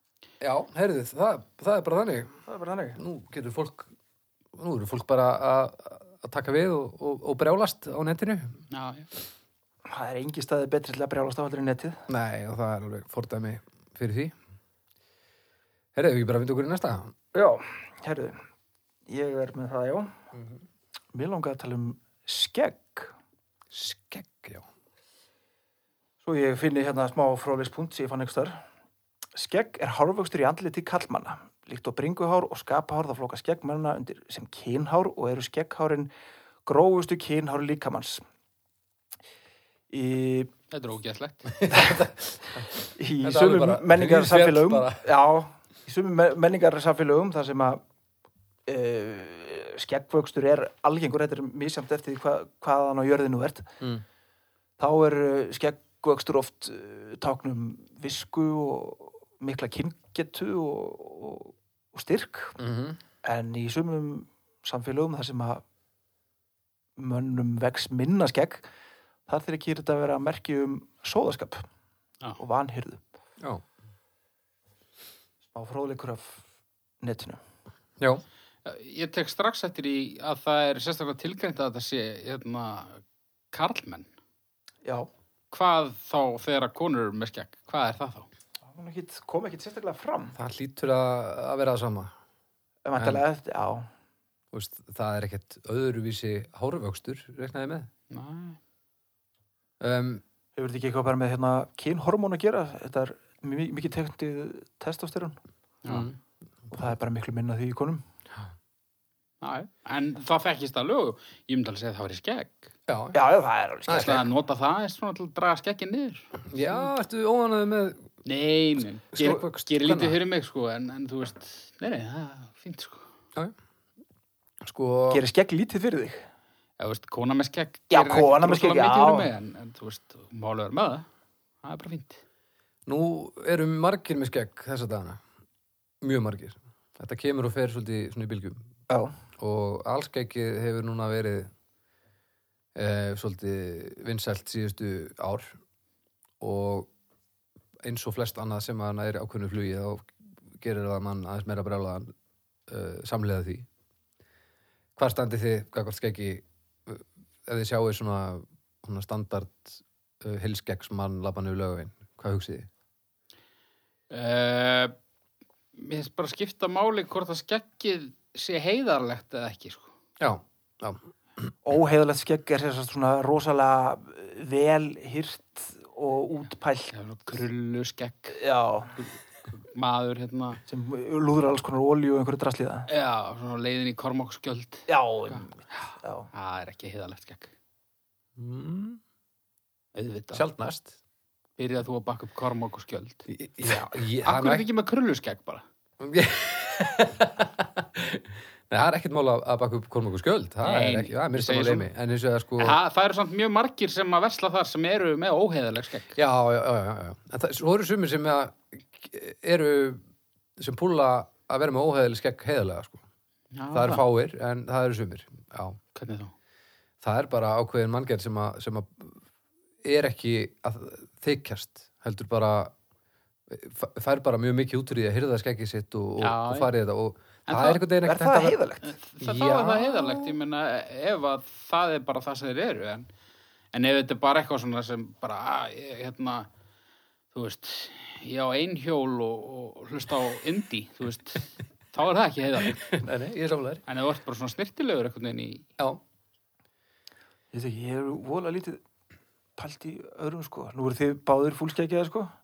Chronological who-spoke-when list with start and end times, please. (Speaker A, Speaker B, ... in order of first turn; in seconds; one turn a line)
Speaker A: 0.4-2.4
Speaker B: 2.5-3.0
Speaker A: 3.0-3.9
Speaker A: 4.5-8.6
Speaker C: 8.7-9.1
Speaker B: 9.8-12.1
Speaker A: 12.1-14.3
Speaker A: 15.9-17.1
Speaker B: 17.3-18.4
Speaker B: 19.1-20.1
Speaker B: 21.1-23.1
Speaker A: 23.7-24.7
Speaker B: 26.2-28.6
Speaker B: 29.3-36.1
Speaker B: 36.6-38.2
Speaker B: 39.9-40.5
Speaker C: 40.7-41.6
Speaker A: 41.5-45.0
Speaker B: 41.7-42.0
Speaker B: 42.9-47.8
Speaker B: 48.7-53.7
Speaker B: 54.8-62.6
Speaker A: 62.6-63.0
Speaker B: 63.2-65.6
Speaker B: 67.0-68.7
Speaker B: 69.3-71.6
Speaker B: 72.4-73.0
Speaker B: 75.5-76.4
Speaker B: 77.0-77.4
Speaker C: 78.6-84.1
Speaker C: 85.5-88.3
Speaker B: 88.7-90.3
Speaker A: 90.3-92.1
Speaker B: 92.8-93.9
Speaker A: 93.0-93.2
Speaker A: 94.5-97.9
Speaker C: 98.1-98.6
Speaker A: 99.8-100.2
Speaker B: 100.5-105.4
Speaker C: 105.8-106.1
Speaker A: 105.9-106.1
Speaker B: 106.7-108.0
Speaker C: 109.4-112.7
Speaker A: 112.9-113.2
Speaker B: 113.1-114.3
Speaker A: 113.9-114.2
Speaker C: 113.9-116.8
Speaker A: 116.5-118.1
Speaker C: 118.2-123.0
Speaker A: 119.1-120.2
Speaker A: 124.6-125.2
Speaker B: 125.1-126.2
Speaker C: 126.8-131.1
Speaker B: 127.9-129.3
Speaker C: 131.6-132.2
Speaker A: 132.8-135.2
Speaker A: 136.0-138.7
Speaker B: 138.9-139.1
Speaker A: 139.4-141.5
Speaker A: 142.8-145.5
Speaker A: 146.4-146.9
Speaker A: 147.8-152.1
Speaker A: 152.7-153.7
Speaker A: 155.0-162.7
Speaker C: 164.1-164.9
Speaker C: 165.8-169.9
Speaker A: 170.2-171.5
Speaker B: 171.6-176.9
Speaker C: 176.9-178.4
Speaker B: 178.3-179.0
Speaker C: 178.9-180.6
Speaker B: 180.7-182.9
Speaker C: 182.9-187.5
Speaker B: 184.9-186.3
Speaker A: 188.4-189.0
Speaker C: 189.9-190.4
Speaker A: 190.3-190.9
Speaker C: 191.6-195.6
Speaker A: 193.3-194.6
Speaker A: 196.0-202.8
Speaker C: 200.6-201.9
Speaker C: 202.6-206.2
Speaker A: 206.1-210.0
Speaker A: 210.6-213.0
Speaker C: 213.5-214.0
Speaker A: 213.7-215.8
Speaker C: 215.9-216.3
Speaker A: 217.0-219.2
Speaker A: 219.8-222.7
Speaker A: 223.5-228.6
Speaker C: 226.2-226.7
Speaker C: 227.5-227.8
Speaker B: 228.0-228.9
Speaker C: 228.8-233.1
Speaker A: 229.2-230.3
Speaker C: 233.7-236.5
Speaker C: 237.3-243.0
Speaker A: 242.8-243.8
Speaker C: 243.8-245.6
Speaker B: 247.5-248.8
Speaker B: 249.6-252.3